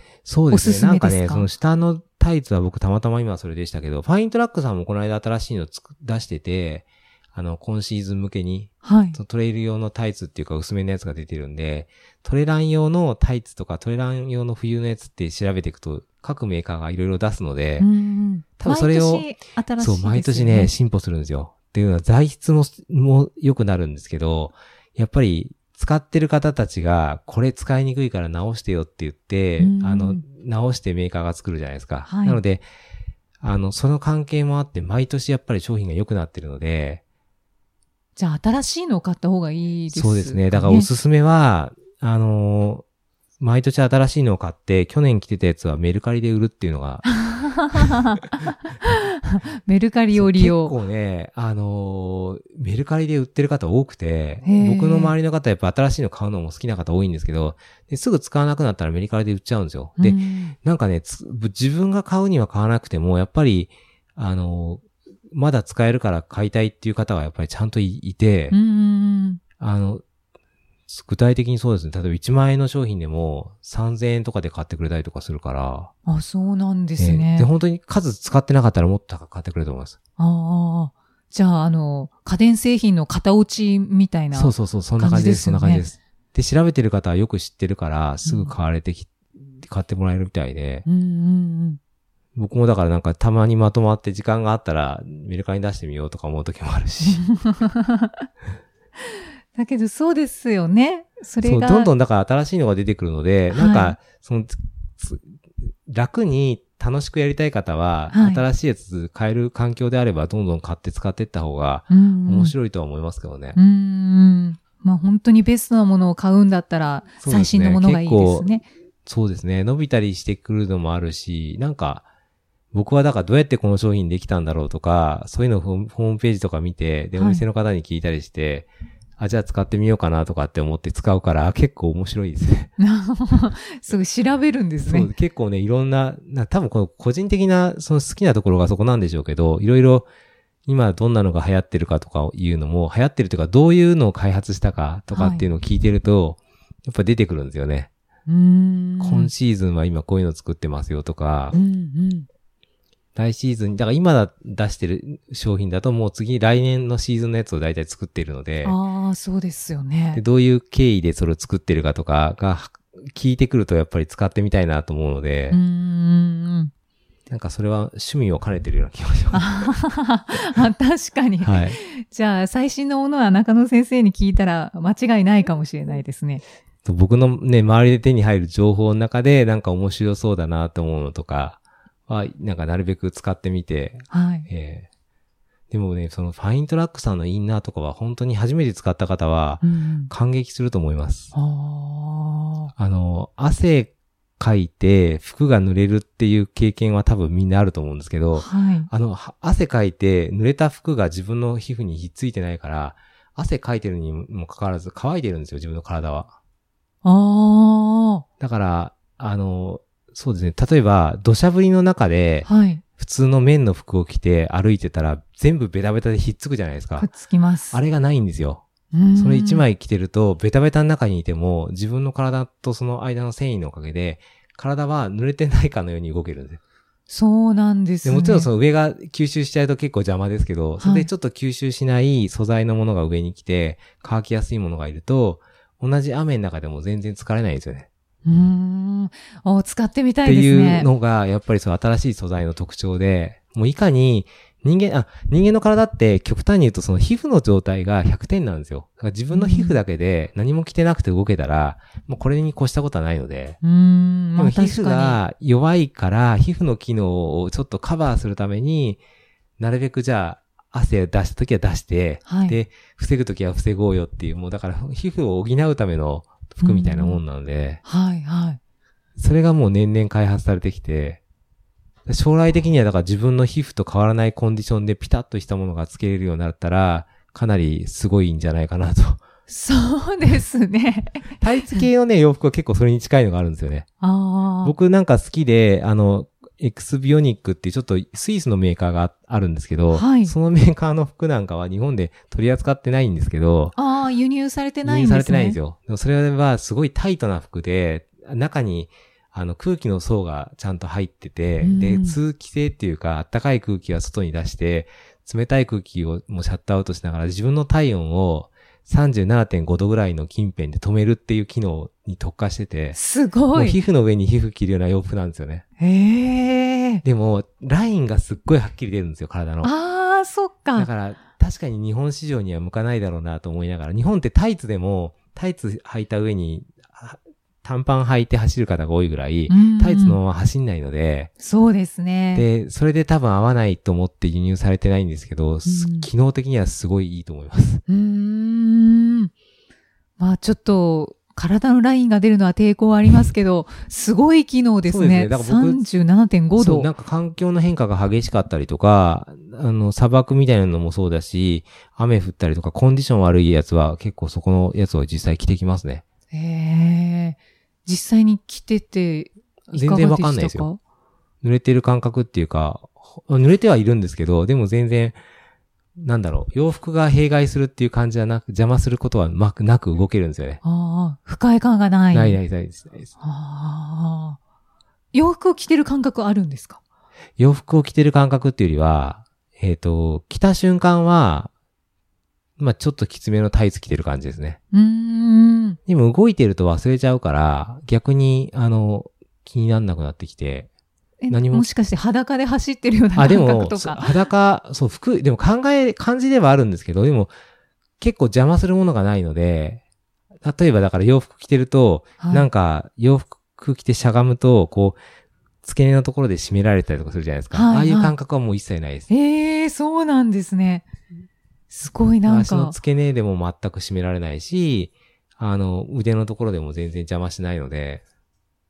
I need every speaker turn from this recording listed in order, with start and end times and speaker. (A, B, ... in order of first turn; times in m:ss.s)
0:00.2-0:17.9 A
0:00.5-0:01.5 B
0:08.8-0:09.2 B
0:17.8-0:20.7 B
0:18.6-0:32.6 A
0:29.6-0:30.2 B
0:32.0-0:32.4 B
0:33.4-0:37.0 A
0:38.2-0:40.9 B
0:39.9-0:42.8 A
0:43.4-0:47.2 A
0:47.0-0:50.7 B
0:50.1-1:08.6 A
0:54.4-0:55.1 B
1:00.0-1:00.5 B
1:08.5-1:09.4 B
1:09.6-1:10.0 A
1:10.9-1:15.9 A
1:16.0-1:17.5 B
1:17.0-1:20.0 A
1:20.2-1:25.9 B
1:24.3-1:30.8 A
1:28.2-1:28.5 B
1:30.8-1:31.8 B
1:32.4-1:37.3 A
1:37.4-1:38.2 B
1:39.5-1:41.9 B
1:41.4-1:53.6 A
1:43.5-1:44.0 B
1:48.1-1:48.4 B
1:51.9-1:52.5 B
1:53.5-1:58.6 B
1:57.2-1:58.5 A
1:59.0-2:02.0 A
2:02.7-2:12.7 A
2:07.1-2:07.4 B
2:12.8-2:15.1 B
2:14.8-2:20.1 A
2:20.6-2:27.9 A
2:25.1-2:25.5 B
2:28.3-2:29.3 B
2:29.0-2:31.6 A
2:31.5-2:32.3 B
2:33.1-2:38.8 A
2:38.6-2:40.2 B
2:40.1-2:45.6 A
2:45.5-2:46.7 B
2:47.3-2:49.7 A
2:49.3-2:56.4 B
2:51.4-2:51.8 A
2:56.8-3:04.9 A
3:04.1-3:04.5 B
3:05.7-3:11.3 A
3:09.6-3:10.1 B
3:11.3-3:12.7 B
3:12.8-3:26.3 A
3:18.3-3:18.9 B
3:27.0-3:28.2 B
3:28.4-3:37.1 A
3:32.4-3:32.8 B
3:37.0-3:37.8 B
3:37.7-3:38.6 A
3:38.9-3:39.6 B
3:39.1-3:46.6 A
3:47.1-3:48.5 B
3:48.0-3:57.9 A
3:50.8-3:51.1 B
3:58.2-4:00.9 B
4:00.2-4:13.6 A
4:09.3-4:09.8 B
4:13.6-4:15.2 B
4:14.4-4:19.0 A
4:19.6-4:27.8 A
4:22.2-4:22.6 B
4:26.6-4:27.2 B
4:27.8-4:28.6 B
4:29.2-4:31.2 A
4:32.1-4:39.2 A
4:39.5-4:41.8 B
4:41.4-4:43.9 A
4:44.0-4:44.7 B
4:44.6-4:53.8 A
4:49.9-4:50.3 B
4:53.7-4:55.6 B
4:54.8-5:13.0 A
5:01.6-5:02.2 B
5:12.9-5:13.8 B
5:13.5-5:15.6 A
5:15.8-5:17.0 B
5:17.0-5:19.7 A
5:19.6-5:20.9 B
5:20.7-5:31.3 A
5:29.5-5:30.2 B
5:31.4-5:32.4 B
5:32.3-5:37.8 A
5:35.6-5:36.1 B
5:37.9-5:39.3 B
5:40.2-5:46.9 B
5:44.8-5:45.8 A
5:46.5-5:56.0 A
5:56.3-6:00.8 B
5:59.7-6:00.7 A
6:01.4-6:05.2 A
6:06.0-6:10.6 A
6:10.6-6:12.4 B
6:12.1-6:13.1 A
6:13.2-6:14.4 B
6:15.1-6:16.8 B
6:17.4-6:21.5 A
6:22.6-6:24.6 A
6:24.7-6:25.8 B
6:25.9-6:30.7 A
6:31.2-6:34.2 B
6:31.3-6:31.7 A
6:33.2-6:37.3 A
6:38.0-6:39.8 A
6:40.4-6:45.0 A
6:42.2-6:42.5 B
6:45.6-6:49.1 A
6:47.5-6:48.1 B
6:49.1-6:50.8 B
6:51.7-6:52.8 B
6:52.2-6:58.0 A